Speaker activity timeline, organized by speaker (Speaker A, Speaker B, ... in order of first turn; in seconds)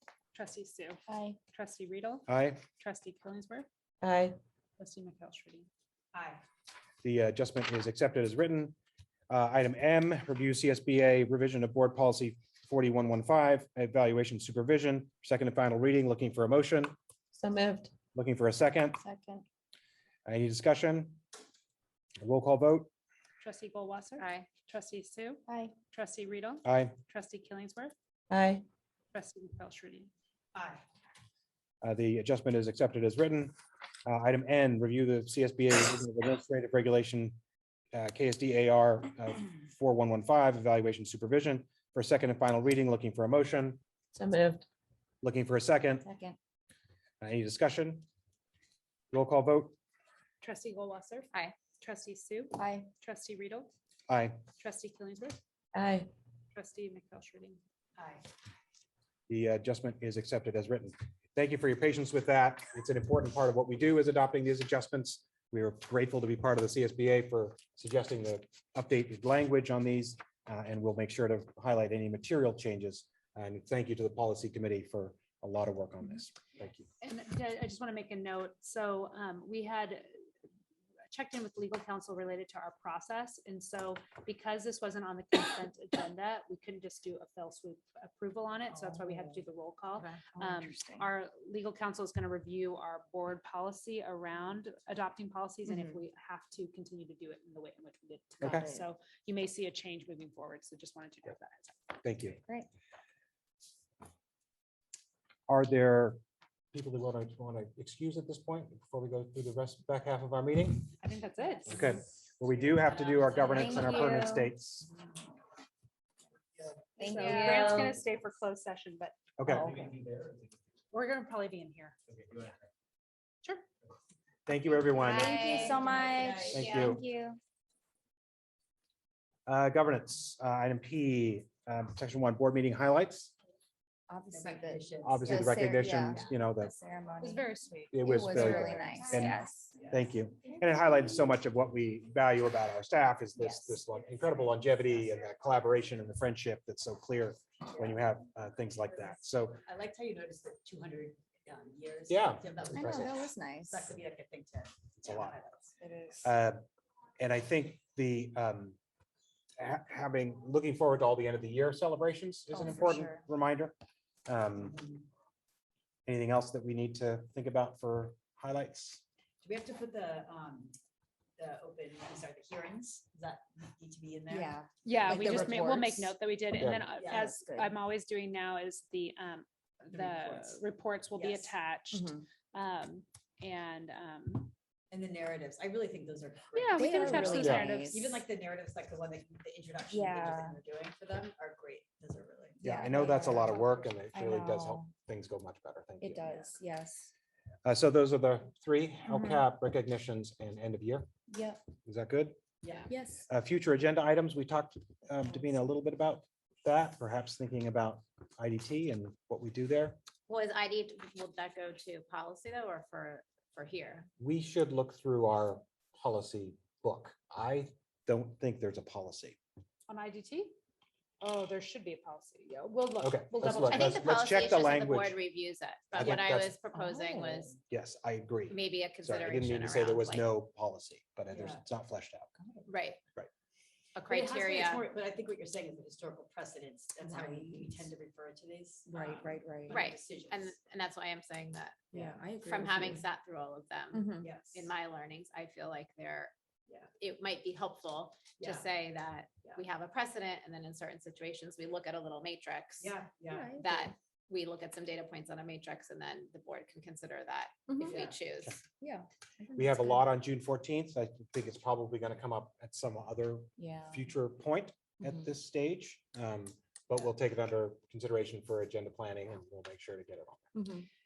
Speaker A: 0.3-1.0, 1.5-3.7, 4.8-5.7, 23.4-27.9, 29.1-30.1, 50.4-53.7, 54.6-55.4, 56.5-57.6, 77.0-80.1, 81.1-101.9, 111.0-112.0, 117.0-119.2, 120.9-122.0, 137.2-138.7, 174.8-184.5, 186.5-188.0, 219.9-220.5, 221.2-224.0
Speaker B: 1.1-1.4, 19.0-19.4, 25.5-25.7, 46.0-46.4, 52.6-52.9, 90.3-91.1, 95.7-96.0, 98.4-98.9, 113.4-114.5, 117.0-118.0, 125.0-127.4, 134.1-137.5, 138.0-139.8, 143.4-143.8, 152.7-153.9, 155.8-156.3, 162.5-163.2, 174.3-176.1, 177.1-177.8, 181.9-182.2, 186.7-188.2, 189.9-190.6, 192.6-194.9, 196.0-197.1, 199.1-199.4, 201.3-201.6, 202.9-203.3, 226.8-227.2, 237.0-237.9, 238.9-239.8, 241.9-243.1, 243.9-244.3, 253.3-253.9, 257.7-258.0, 258.8-260.0, 263.6-264.1, 270.5-270.9
Speaker C: 2.3-2.6, 7.0-8.8, 9.3-16.9, 18.1-19.0, 20.2-21.2, 22.2-22.9, 26.6-26.9, 31.8-33.5, 34.0-37.4, 37.9-43.8, 45.2-46.0, 47.2-48.0, 49.1-49.7, 54.1-54.4, 59.3-76.9, 102.0-102.4, 105.5-106.2, 106.7-110.9, 111.7-114.9, 119.4-119.9, 124.5-125.4, 126.5-127.0, 129.5-133.3, 135.0-136.7, 137.9-139.4, 139.9-149.6, 152.1-153.2, 155.0-155.3, 156.2-156.6, 157.2-158.8, 159.6-163.8, 164.3-164.8, 166.1-169.0, 176.6-176.9, 187.3-187.7, 192.6-196.2, 197.6-201.1, 201.8-202.4, 203.3-210.0, 214.2-219.4, 223.0-225.2, 225.9-226.6, 227.7-232.3, 259.5-270.5
Speaker D: 4.0-4.3, 17.3-17.9, 28.3-28.6, 44.1-44.6, 55.7-56.1
Speaker E: 6.1-6.4, 30.5-30.8, 58.0-58.2, 112.5-114.1, 117.2-117.5, 125.4-126.6, 134.3-136.3, 139.8-140.0, 143.9-144.8, 147.8-148.0, 149.6-155.8, 164.6-165.0, 169.4-170.8, 171.4-175.4, 177.0-177.3, 179.9-180.6, 181.1-181.5, 184.9-193.5, 196.3-196.5, 202.6-202.9, 226.8-227.5, 231.3-231.6, 234.0-240.6, 241.9-242.2, 244.2-244.7, 248.4-248.7, 252.8-253.6, 257.8-258.2
Speaker F: 24.2-24.5, 124.9-126.9, 210.3-214.1, 223.6-227.6, 228.5-230.3, 232.7-233.0, 233.9-234.8, 239.7-241.9, 242.4-246.3, 247.0-252.9, 253.5-258.6